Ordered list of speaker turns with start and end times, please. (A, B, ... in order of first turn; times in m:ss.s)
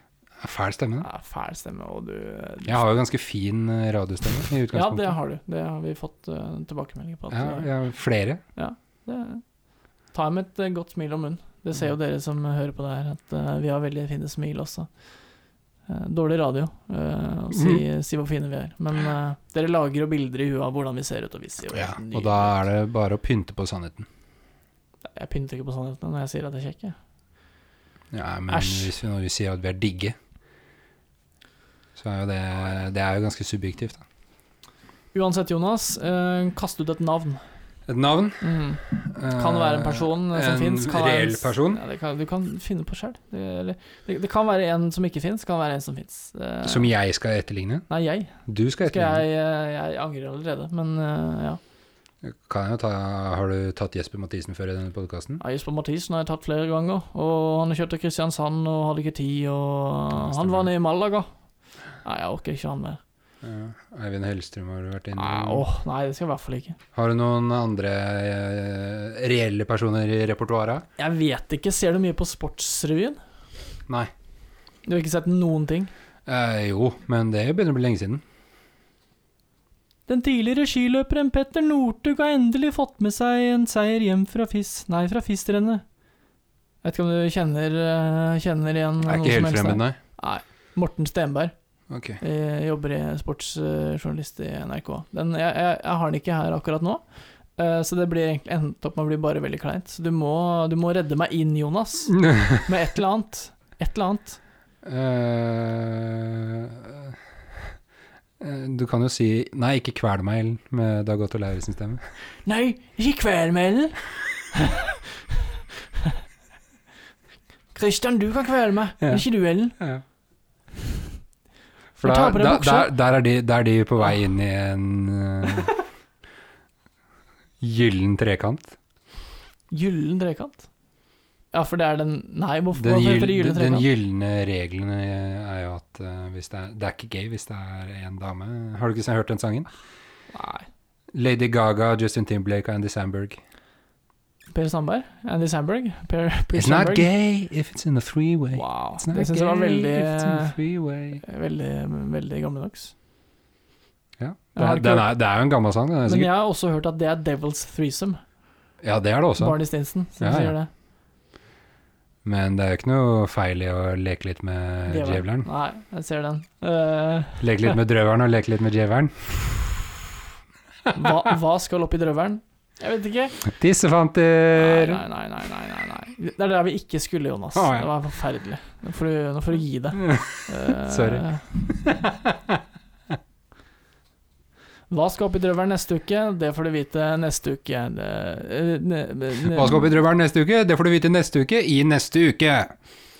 0:00.4-0:01.1 A
0:01.0-0:02.8 B
0:02.6-0:05.1 A
0:04.7-0:07.7 B
0:07.3-0:08.4 A
0:08.6-0:09.4 B
0:10.1-0:14.9 B
0:15.9-0:22.6 B
0:17.5-0:17.8 A
0:21.7-0:24.1 A
0:25.1-0:27.0 B
0:28.1-0:30.2 A
0:28.5-0:28.9 B
0:31.9-0:34.0 A
0:35.1-0:37.4 B
0:37.9-0:41.8 A
0:38.4-0:46.9 B
0:46.6-0:47.8 A
0:47.9-0:51.6 B
0:48.4-0:49.2 A
0:52.2-0:55.4 A
0:55.4-1:01.3 B
1:00.1-1:00.7 A
1:02.0-1:03.0 B
1:03.4-1:05.6 A
1:05.1-1:06.8 B
1:06.9-1:10.8 A
1:11.0-1:13.2 B
1:13.9-1:14.1 A
1:14.8-1:15.9 B
1:16.2-1:18.2 A
1:20.1-1:25.8 B
1:26.8-1:31.5 B
1:29.0-1:30.0 A
1:31.9-1:32.2 A
1:32.2-1:37.0 B
1:37.6-1:44.4 B
1:42.2-1:42.6 A
1:44.8-1:47.2 A
1:48.4-1:52.0 A
1:52.4-1:56.2 B
1:57.7-1:59.8 B
1:59.8-2:00.0 A
2:02.0-2:05.7 A
2:02.0-2:02.9 B
2:07.6-2:08.8 A
2:09.7-2:10.7 B
2:11.5-2:13.9 B
2:12.7-2:19.7 A
2:20.3-2:20.7 B
2:21.1-2:23.4 A
2:24.5-2:27.1 B
2:26.5-2:31.2 A
2:28.5-2:30.6 B
2:31.2-2:32.9 B
2:34.2-2:36.3 A
2:34.5-2:35.1 B
2:36.0-2:38.2 B
2:38.8-2:39.6 A
2:39.4-2:40.7 B
2:40.2-2:40.5 A
2:42.2-2:45.5 A
2:44.9-2:47.7 B
2:47.4-2:49.8 A
2:50.9-2:53.4 B
2:53.4-2:55.0 A
2:54.5-3:01.4 B
2:57.5-2:57.9 A
3:00.0-3:02.6 A
3:04.9-3:09.9 B
3:09.4-3:12.7 A